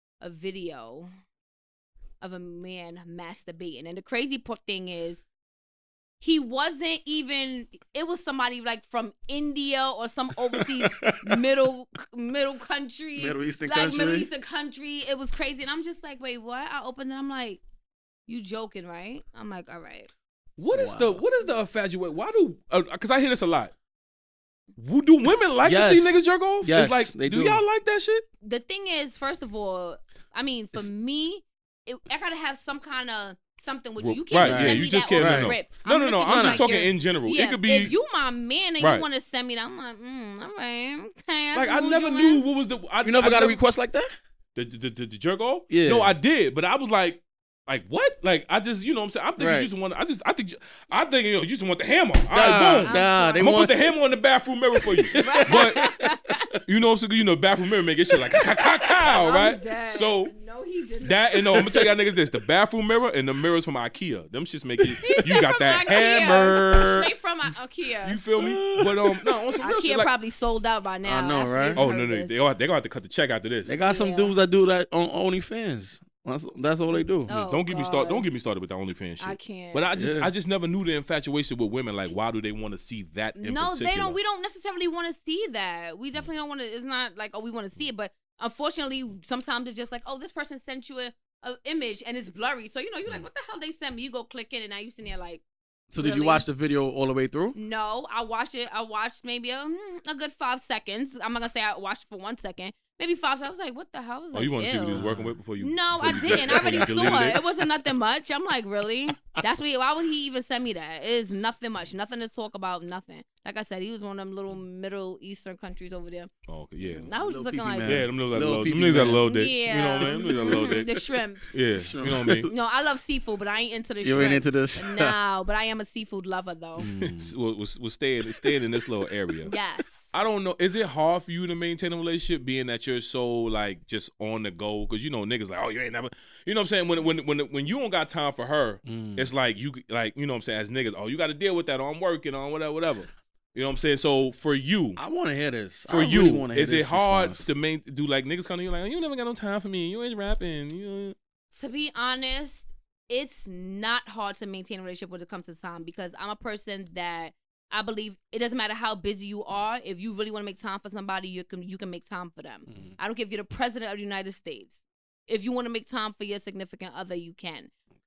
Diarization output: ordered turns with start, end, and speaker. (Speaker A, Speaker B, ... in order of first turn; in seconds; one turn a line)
Speaker A: 0.2-1.1
Speaker A: 2.2-5.2
Speaker A: 6.2-17.6
Speaker B: 10.5-11.4
Speaker B: 13.2-14.3
Speaker A: 18.3-20.1
Speaker C: 20.6-23.7
Speaker B: 20.7-21.2
Speaker C: 24.8-28.2
Speaker B: 25.6-27.6
Speaker A: 28.4-42.4
Speaker C: 34.0-37.9
Speaker B: 34.4-35.5
Speaker B: 36.2-36.7
Speaker C: 38.8-39.1
Speaker C: 41.5-43.6
Speaker B: 43.0-44.1
Speaker C: 44.5-55.9
Speaker B: 45.7-46.1
Speaker B: 49.4-49.7
Speaker B: 52.3-53.8
Speaker A: 52.8-53.5
Speaker B: 54.8-55.9
Speaker A: 55.1-56.5
Speaker C: 56.6-60.3
Speaker B: 58.3-59.2
Speaker A: 59.1-61.6
Speaker C: 61.0-67.1
Speaker B: 61.5-61.9
Speaker B: 64.8-65.2
Speaker A: 65.0-68.2
Speaker B: 66.2-66.6
Speaker C: 68.0-70.1
Speaker B: 68.4-69.3
Speaker A: 69.6-72.4
Speaker B: 71.0-71.8
Speaker C: 71.8-73.7
Speaker B: 73.7-77.3
Speaker A: 73.8-74.4
Speaker A: 77.3-78.3
Speaker C: 77.3-84.2
Speaker A: 79.2-79.9
Speaker B: 79.9-80.3
Speaker A: 83.4-95.4
Speaker B: 95.9-97.5
Speaker A: 96.0-96.5
Speaker A: 97.5-105.0
Speaker C: 104.3-107.4
Speaker B: 104.9-105.4
Speaker A: 105.6-116.3
Speaker B: 106.0-107.4
Speaker C: 116.5-117.1
Speaker A: 116.8-118.0
Speaker B: 117.1-119.3
Speaker C: 117.8-120.9
Speaker A: 119.2-121.6
Speaker B: 120.0-121.0
Speaker C: 121.5-122.5
Speaker B: 121.8-122.5
Speaker A: 122.5-126.9
Speaker B: 124.0-125.1
Speaker B: 126.8-127.3
Speaker C: 126.8-129.5
Speaker B: 128.3-129.4
Speaker A: 129.4-130.1
Speaker C: 130.1-145.0
Speaker B: 138.8-139.3
Speaker B: 145.0-147.5
Speaker C: 145.9-151.2
Speaker A: 151.5-167.7
Speaker B: 162.7-162.9